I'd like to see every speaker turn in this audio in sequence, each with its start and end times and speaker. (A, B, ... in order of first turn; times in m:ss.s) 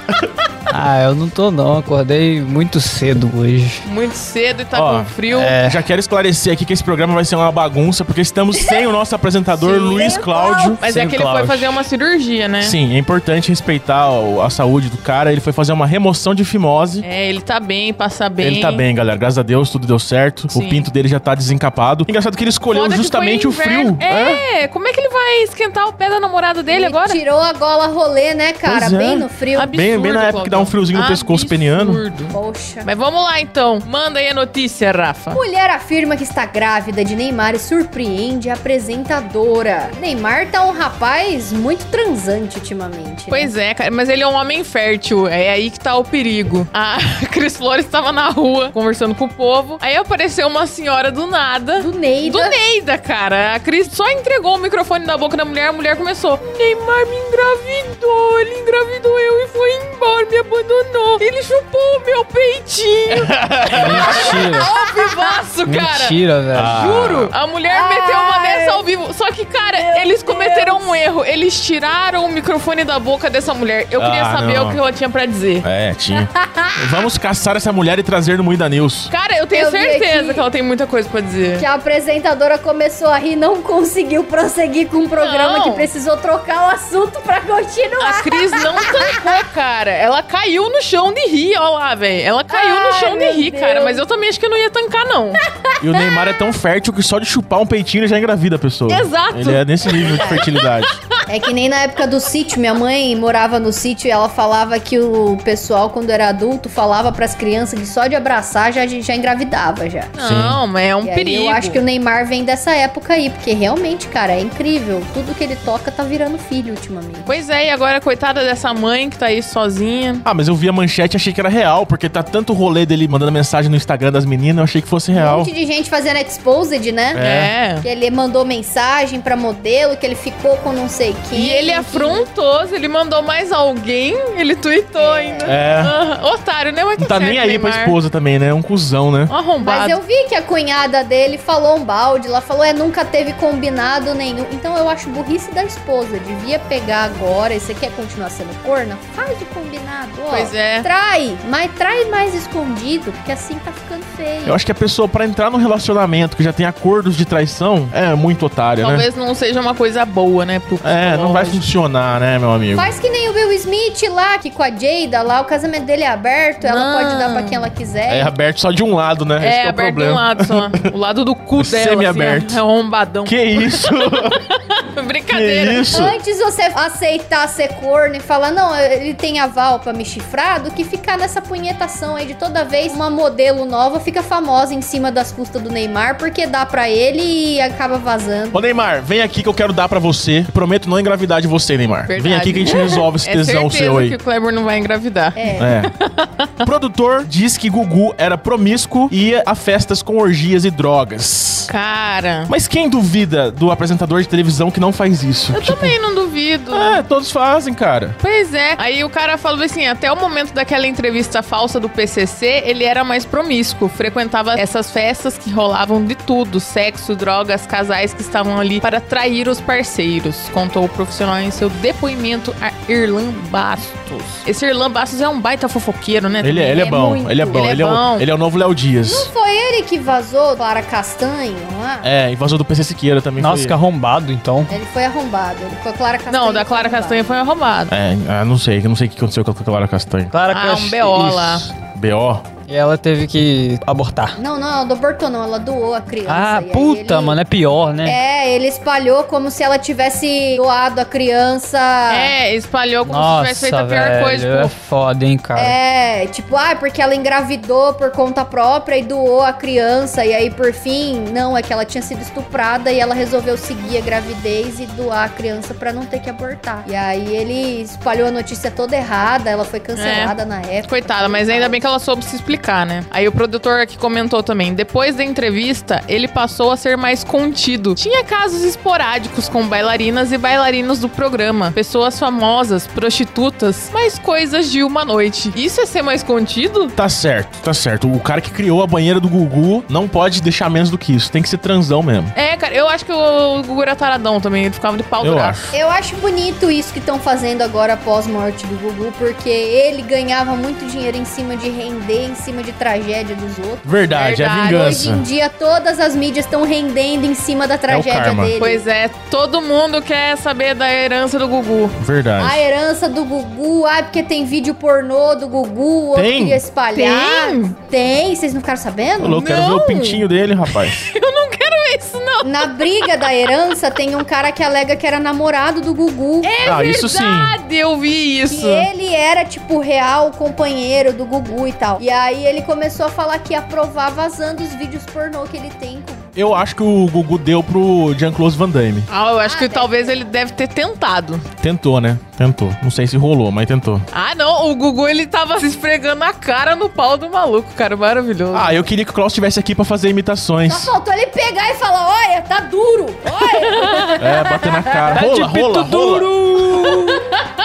0:00.7-0:03.8 A
0:03.8-0:05.6 B
0:04.7-0:10.8 C
0:05.3-0:05.9 A
0:08.5-0:08.9 D
0:09.6-0:10.0 B
0:09.9-0:10.8 D
0:10.8-0:12.8 B
0:10.8-0:11.7 A
0:12.6-0:17.0 C
0:17.0-0:18.8 B
0:18.4-0:24.4 C
0:20.5-0:20.9 B
0:22.7-0:27.2 B
0:26.7-0:29.8 D
0:28.6-0:32.0 C
0:29.6-0:35.4 B
0:32.3-0:32.9 D
0:35.3-0:43.5 D
0:43.3-1:15.7 B
0:51.8-0:52.6 D
1:03.2-1:04.4 C
1:03.8-1:04.7 A
1:04.8-1:05.1 D
1:05.7-1:07.3 A
1:06.6-1:07.3 C
1:07.7-1:08.9 D
1:09.7-1:11.0 D
1:14.0-1:14.8 C
1:15.6-1:19.1 C
1:16.1-1:17.1 D
1:19.1-1:21.7 B
1:19.5-1:20.4 D
1:21.6-1:29.0 D
1:25.2-1:25.9 B
1:28.0-1:35.4 B
1:32.5-1:34.0 D
1:35.6-1:36.3 D
1:35.8-1:41.0 C
1:38.9-1:40.8 B
1:40.0-1:40.5 D
1:41.3-1:50.2 D
1:50.2-1:51.8 B
1:50.2-1:50.6 C
1:51.0-1:57.4 D
1:57.3-2:00.2 B
2:00.2-2:05.5 C
2:05.1-2:07.2 D
2:07.1-2:07.5 C
2:07.2-2:07.9 B
2:07.8-2:12.3 D
2:11.3-2:18.0 B
2:15.0-2:15.8 D
2:15.4-2:15.9 C
2:17.0-2:19.4 C
2:19.3-2:20.0 B
2:19.6-2:34.6 D
2:30.3-2:30.9 B
2:34.4-2:39.1 C
2:38.8-2:41.6 B
2:40.8-2:42.9 C
2:42.8-2:48.3 D
2:46.6-2:47.6 B
2:48.1-2:50.9 C
2:49.4-2:56.0 B
2:51.6-2:52.6 C
2:53.2-2:54.4 C
2:55.3-2:56.2 C
2:55.8-3:08.6 D
3:08.5-3:14.2 C
3:12.1-3:16.5 B
3:15.4-3:15.7 D
3:15.6-3:15.9 C
3:16.6-3:21.7 C
3:21.7-3:22.5 B
3:22.5-3:26.0 C
3:25.5-3:27.0 B
3:26.7-3:28.2 C
3:28.2-3:48.3 B
3:46.4-3:49.3 C
3:46.8-3:47.6 D
3:49.0-3:52.1 D
3:52.0-3:53.8 C
3:53.4-3:54.7 A
3:54.7-3:57.4 D
3:56.3-3:57.9 B
3:57.9-4:00.3 C
4:00.3-4:01.6 A
4:00.5-4:01.7 B
4:01.9-4:02.5 C
4:02.6-4:04.4 A
4:04.4-4:07.4 D
4:06.2-4:08.2 A
4:08.0-4:12.3 D
4:12.1-4:14.7 B
4:13.1-4:15.8 A
4:15.5-4:31.8 D
4:30.0-4:47.0 B
4:47.0-4:52.3 C
4:52.3-4:55.7 B
4:55.2-4:55.7 C
4:55.7-5:04.0 D
5:03.8-5:05.3 C
5:04.1-5:05.0 B
5:04.6-5:08.8 D
5:07.9-5:08.6 C
5:08.6-5:12.0 B
5:12.0-5:12.6 C
5:12.4-5:19.4 D
5:16.1-5:16.6 C
5:16.9-5:17.8 B
5:19.2-5:21.1 C
5:19.4-5:23.1 B
5:22.4-5:26.6 D
5:26.4-5:28.9 B
5:26.6-5:27.6 C
5:28.5-5:36.6 D
5:36.4-5:39.1 C
5:39.1-5:41.4 B
5:39.4-5:40.3 D
5:41.6-5:44.1 C
5:44.1-5:48.8 B
5:48.5-5:50.9 C
5:50.7-5:55.1 D
5:53.4-5:54.2 B
5:54.2-5:56.3 C
5:55.1-5:57.2 A
5:56.8-5:57.4 B